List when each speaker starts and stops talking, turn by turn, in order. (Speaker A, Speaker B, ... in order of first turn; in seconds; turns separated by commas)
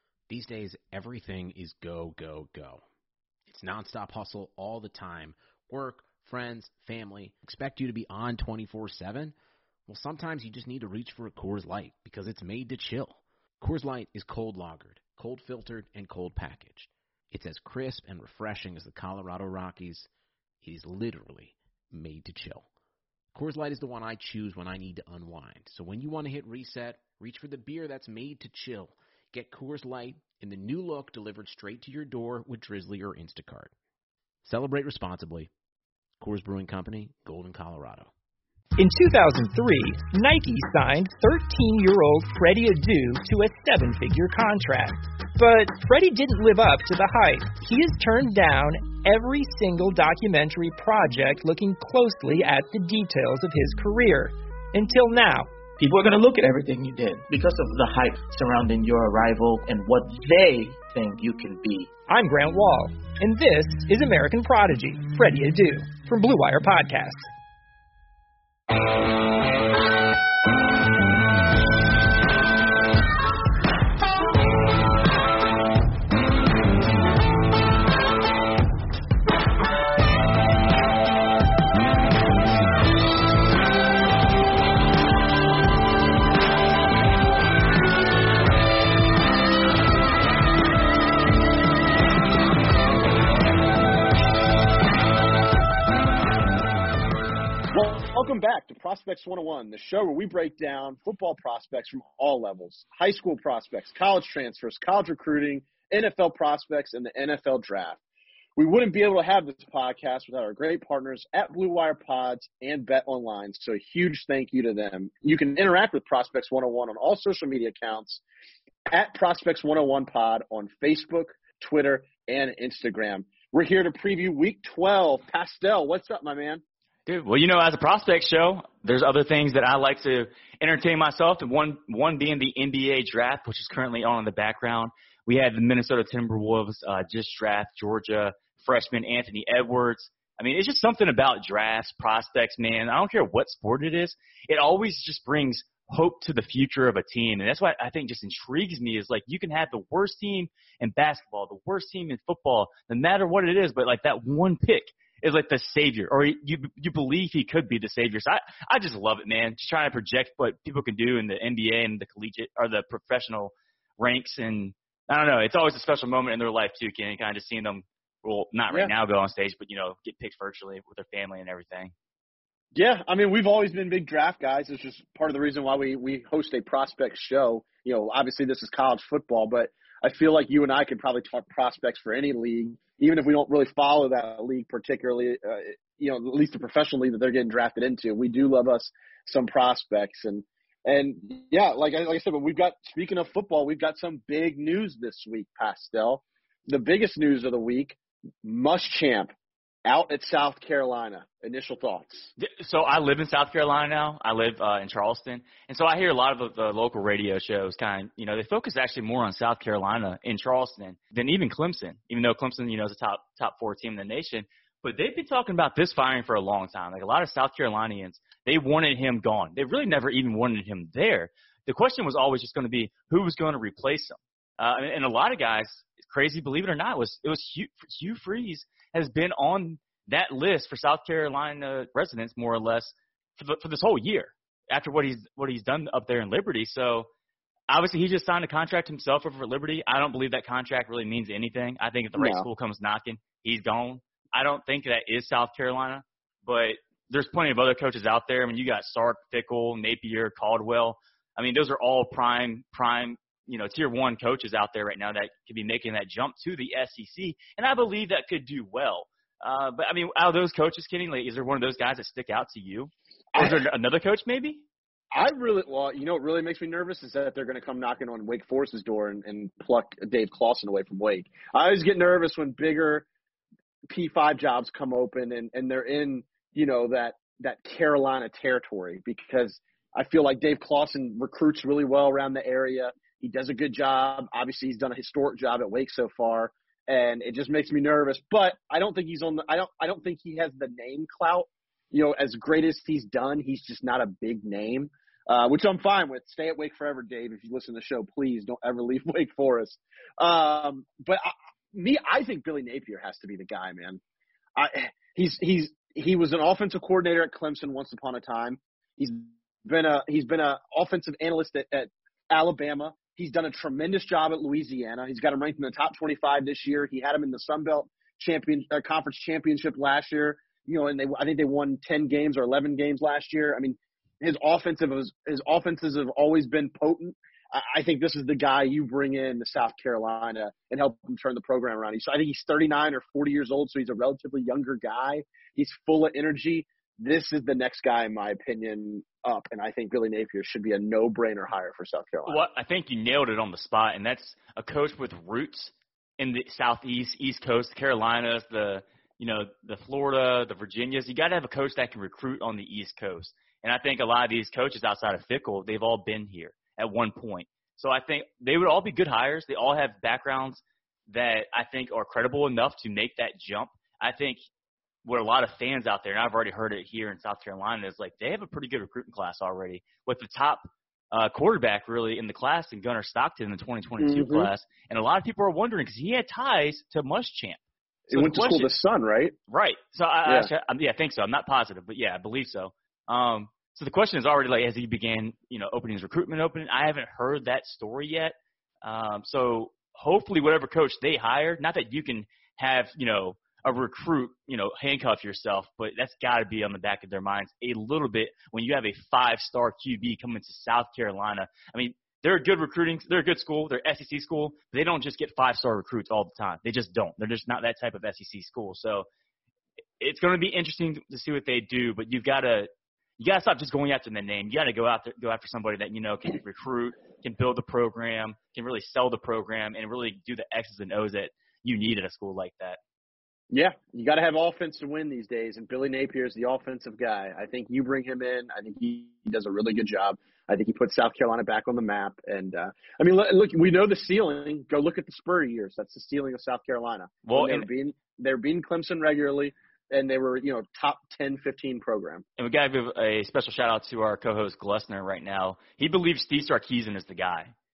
Speaker A: 0.3-2.8, Speaker A: 3.5-9.3, Speaker A: 9.9-20.1, Speaker A: 20.6-22.7, Speaker A: 23.3-33.7, Speaker A: 34.4-35.5, Speaker A: 36.2-38.1, Speaker B: 38.8-55.5, Speaker C: 55.8-61.9, Speaker B: 62.1-67.2, Speaker D: 97.7-108.0, Speaker D: 108.6-118.2, Speaker D: 118.9-126.6, Speaker E: 127.1-171.9, Speaker D: 172.7-199.3, Speaker D: 199.8-202.3, Speaker E: 202.4-237.1, Speaker E: 237.7-264.6, Speaker D: 242.1-242.5, Speaker D: 265.1-273.1, Speaker D: 273.9-304.0, Speaker D: 304.6-342.4, Speaker E: 342.2-364.4, Speaker E: 365.0-378.7, Speaker D: 374.0-374.5, Speaker D: 378.1-379.3, Speaker E: 379.5-409.1, Speaker D: 380.2-380.5, Speaker E: 410.0-422.8, Speaker D: 423.5-442.2, Speaker E: 437.2-437.7, Speaker E: 442.4-447.5